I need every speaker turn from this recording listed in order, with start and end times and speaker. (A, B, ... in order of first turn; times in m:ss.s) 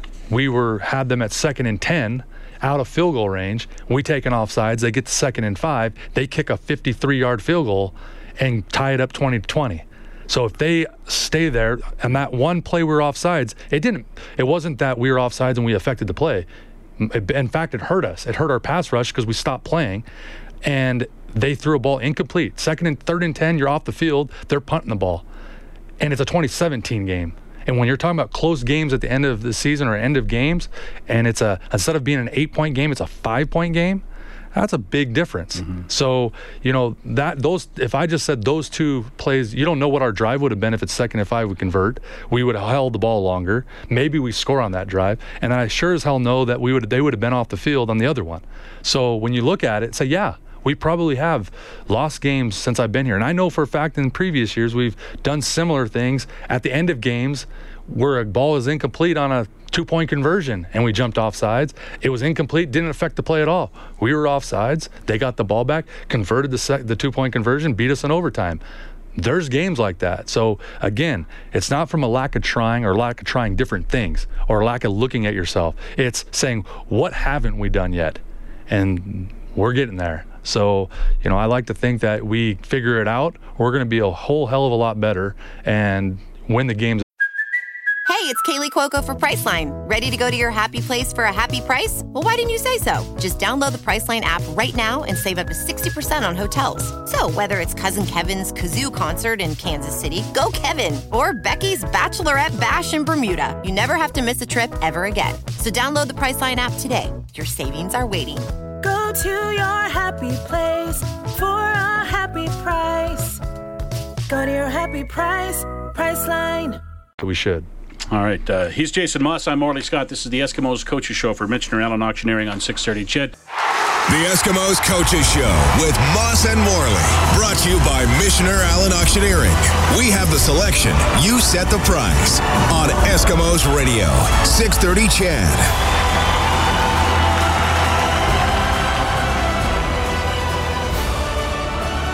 0:00.3-0:16.5 A
0:17.0-0:20.0 A
0:20.6-0:25.2 A
0:26.0-1:08.6 A
1:09.2-1:27.0 A
1:28.1-1:48.5 B
1:48.8-1:53.4 C
1:54.3-1:56.8 C
1:57.2-1:57.7 A
1:58.1-2:03.4 D
2:04.1-2:15.7 E